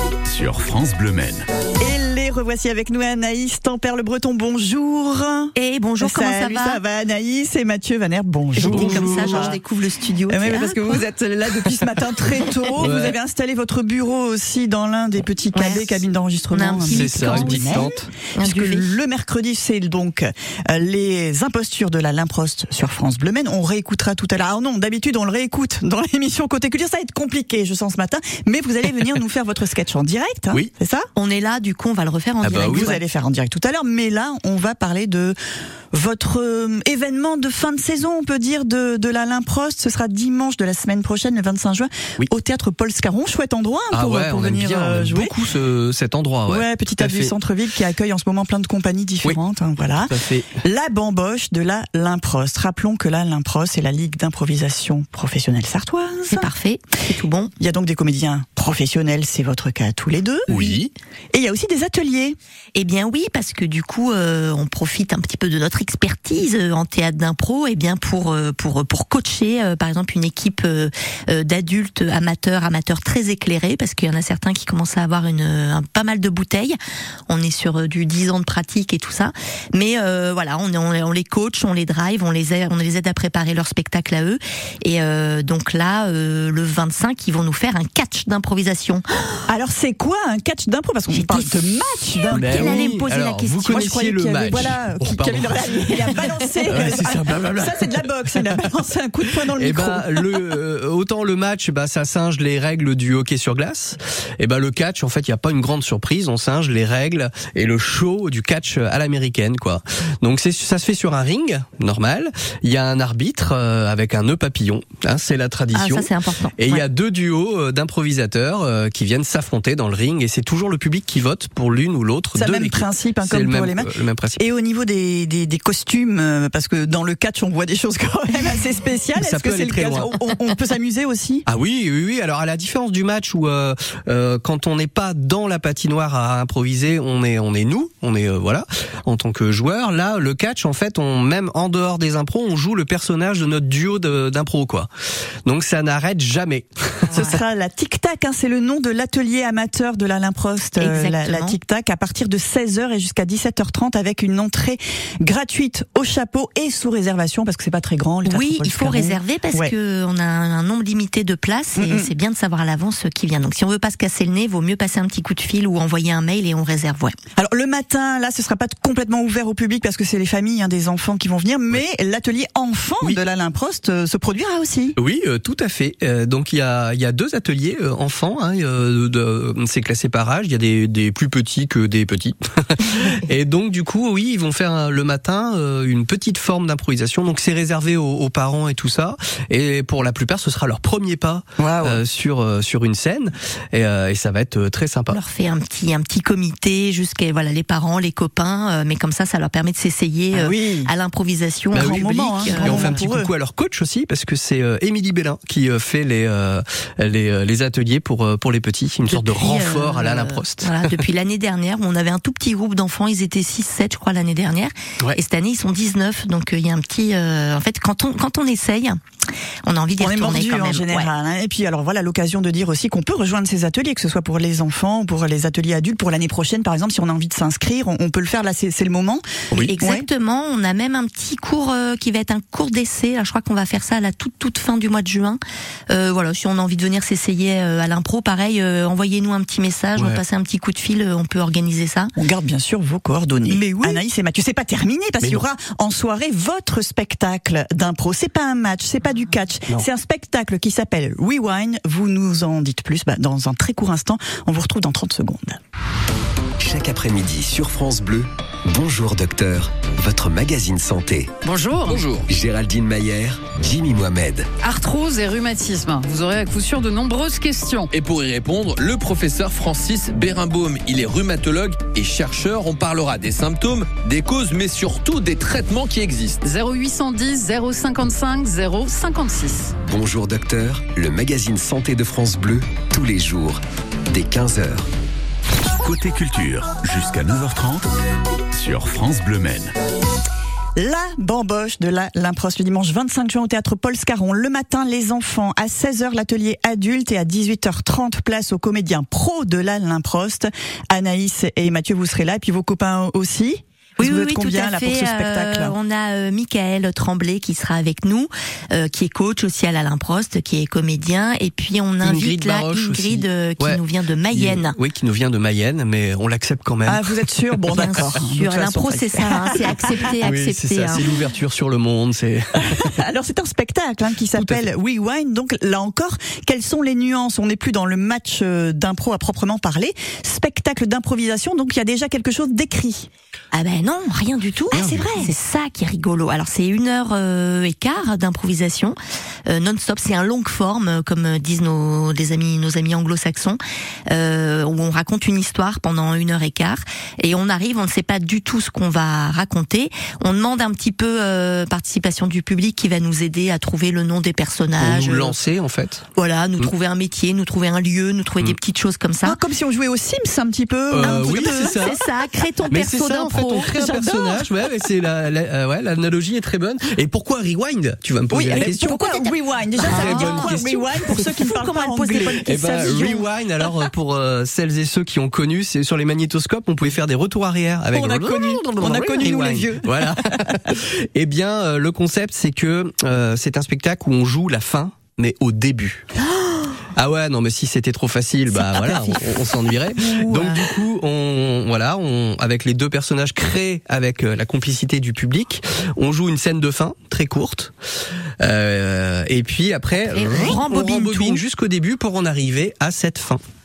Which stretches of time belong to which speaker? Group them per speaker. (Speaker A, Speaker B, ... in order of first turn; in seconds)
Speaker A: 0.2-1.5, 60.5-60.9, 285.8-287.9, 288.5-289.8
Speaker B: 1.8-9.6, 10.3-31.1, 32.6-35.4, 35.9-45.4, 46.5-56.5, 57.6-60.5, 61.3-62.4, 89.5-92.9, 93.7-100.2, 122.3-131.4, 147.1-159.8, 161.8-162.1, 167.4-175.0, 191.6-192.0, 200.3-200.9, 201.8-203.3, 220.0-230.1, 242.2-255.6, 290.8-305.8, 316.9-319.8, 322.6-333.1, 334.7-335.3, 359.2-361.9, 363.7-364.5, 368.3-373.3, 377.9-380.6, 390.1-390.6
Speaker C: 5.5-6.8, 8.6-11.0, 15.5-19.0, 31.1-33.0, 56.3-57.5, 62.8-76.8, 77.3-89.4, 91.1-93.8, 115.7-116.8, 147.1-147.4, 150.8-151.6, 158.2-167.2, 195.1-203.1, 209.1-219.0, 219.7-221.1, 229.7-235.4, 235.9-242.1, 243.5-244.0, 304.0-314.8, 317.7-321.0, 333.5-339.0, 339.5-355.4, 356.2-359.4, 361.0-363.7, 369.8-373.0, 400.1-401.4
Speaker D: 8.6-9.6, 12.8-13.2, 16.8-18.1, 32.4-32.9, 43.9-47.4, 50.1-50.6, 60.5-60.8, 92.3-98.5, 99.5-124.4, 129.2-130.1, 131.5-144.9, 145.5-147.3, 175.0-195.2, 201.7-211.0, 240.0-240.2, 312.0-318.0, 320.2-323.0, 324.3-324.7, 354.8-356.1, 360.9-362.0, 362.7-369.1, 369.8-370.8, 372.2-386.1, 386.9-397.7, 398.4-403.4
Speaker E: 256.6-261.3, 262.2-264.5, 279.8-284.9
Speaker F: 261.4-262.1, 264.6-267.9, 276.4-279.8
Speaker G: 261.9-262.2, 267.9-276.4